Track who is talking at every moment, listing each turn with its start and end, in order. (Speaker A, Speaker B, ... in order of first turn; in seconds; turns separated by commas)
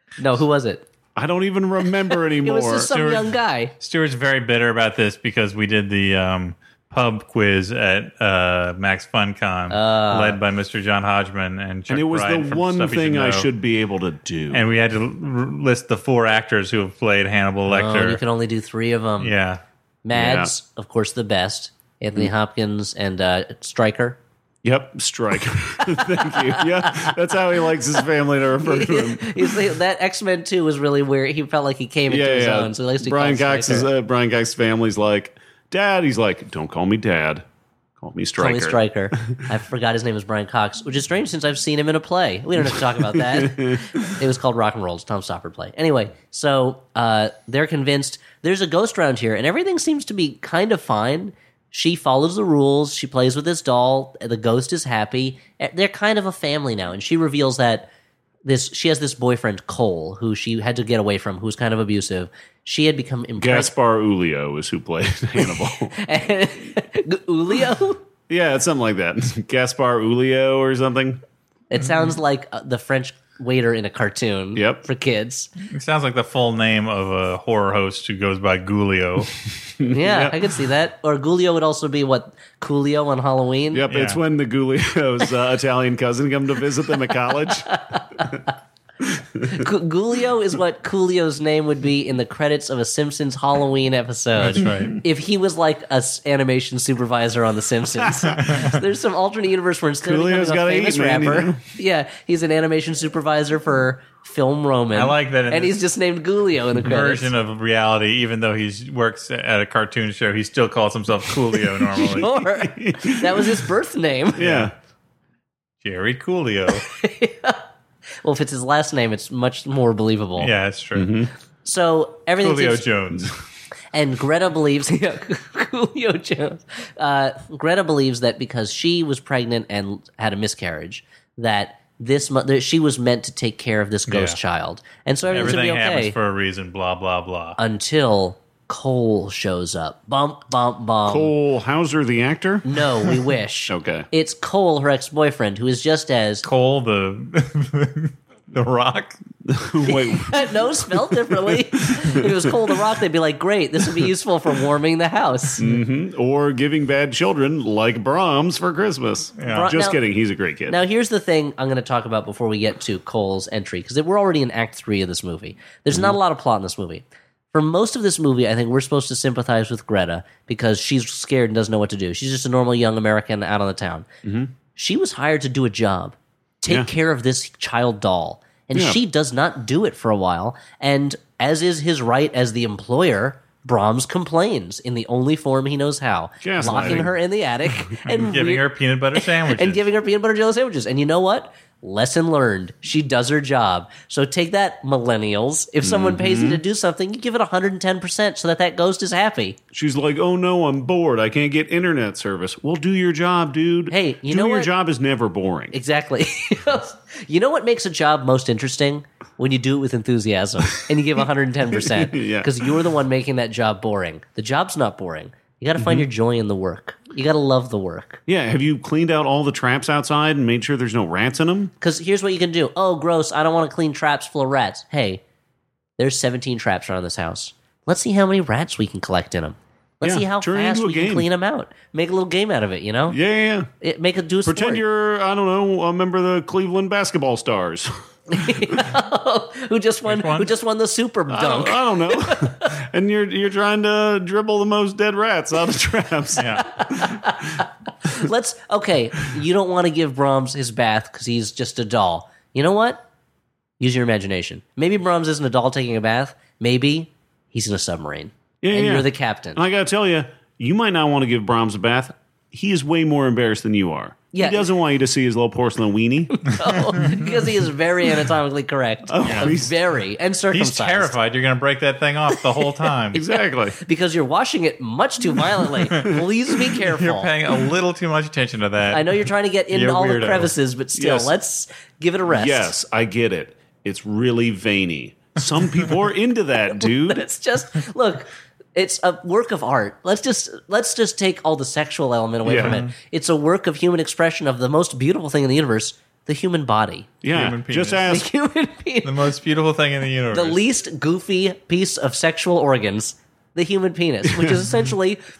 Speaker A: 0.2-0.9, Speaker B: 1.2-2.9, Speaker A: 2.3-3.7, Speaker C: 2.9-3.2, Speaker C: 3.8-13.5, Speaker A: 9.7-10.4, Speaker B: 11.9-14.7, Speaker C: 14.5-18.2, Speaker A: 17.7-19.4, Speaker C: 19.2-19.6, Speaker A: 20.1-24.2, Speaker B: 20.1-20.5, Speaker B: 24.6-29.6, Speaker A: 26.2-27.1, Speaker A: 28.6-33.9, Speaker B: 32.1-37.5, Speaker B: 38.0-38.8, Speaker A: 38.4-57.9, Speaker B: 43.2-44.0, Speaker A: 58.5-63.7, Speaker B: 63.4-66.0, Speaker A: 66.0-68.0, Speaker B: 68.3-71.2, Speaker A: 71.7-75.5, Speaker B: 74.5-74.8, Speaker C: 75.7-79.3, Speaker B: 79.8-80.4, Speaker A: 79.9-83.8, Speaker B: 83.7-87.7, Speaker C: 83.9-84.2, Speaker A: 87.5-88.4, Speaker B: 89.0-89.6, Speaker A: 89.5-107.3, Speaker C: 94.4-95.0, Speaker C: 98.4-98.8, Speaker B: 100.0-101.6, Speaker C: 104.9-105.8, Speaker C: 106.8-112.3, Speaker A: 112.0-114.5, Speaker B: 112.4-113.7, Speaker B: 114.4-114.7, Speaker C: 114.4-114.7, Speaker C: 115.8-116.8, Speaker A: 116.8-117.6, Speaker A: 118.2-120.5, Speaker C: 120.4-121.2, Speaker B: 121.0-121.3, Speaker A: 121.7-122.9, Speaker C: 122.4-123.3, Speaker A: 123.9-136.2, Speaker C: 134.1-134.4, Speaker C: 135.3-137.6, Speaker A: 137.6-141.3, Speaker B: 141.1-144.1, Speaker A: 142.7-146.4, Speaker C: 146.4-149.2, Speaker B: 149.4-152.5, Speaker A: 149.8-155.6, Speaker B: 155.6-160.8, Speaker C: 159.4-159.7, Speaker A: 159.5-160.0, Speaker A: 160.7-174.1, Speaker B: 174.2-174.5, Speaker A: 174.8-199.6, Speaker B: 178.7-179.0, Speaker B: 186.4-187.2, Speaker C: 186.6-187.0, Speaker C: 188.1-189.8, Speaker B: 195.8-196.6, Speaker B: 199.7-205.8, Speaker A: 203.9-204.7, Speaker A: 205.7-218.2, Speaker B: 211.7-212.7, Speaker B: 215.8-216.1, Speaker B: 218.3-221.7, Speaker A: 221.8-225.2, Speaker A: 226.0-233.2, Speaker B: 230.0-231.3, Speaker B: 233.1-233.7, Speaker A: 233.8-234.8, Speaker B: 234.4-238.7, Speaker A: 238.3-242.8, Speaker C: 240.1-240.5, Speaker B: 241.3-247.2, Speaker C: 246.4-246.7, Speaker A: 246.6-253.0, Speaker A: 253.8-259.6, Speaker B: 258.6-266.5, Speaker A: 264.3-264.7, Speaker A: 266.4-271.2, Speaker C: 267.0-267.2, Speaker B: 269.1-269.8, Speaker C: 269.2-269.5, Speaker C: 270.5-273.2, Speaker B: 273.1-273.8, Speaker A: 273.8-277.3, Speaker C: 276.9-280.5, Speaker A: 278.9-282.7, Speaker B: 280.9-281.3, Speaker B: 282.3-287.2, Speaker A: 286.8-297.1, Speaker B: 292.4-292.8, Speaker C: 292.6-292.9, Speaker B: 297.2-298.3, Speaker C: 297.3-298.1, Speaker A: 298.1-299.2, Speaker C: 299.0-300.6, Speaker A: 300.3-305.2, Speaker B: 304.3-304.6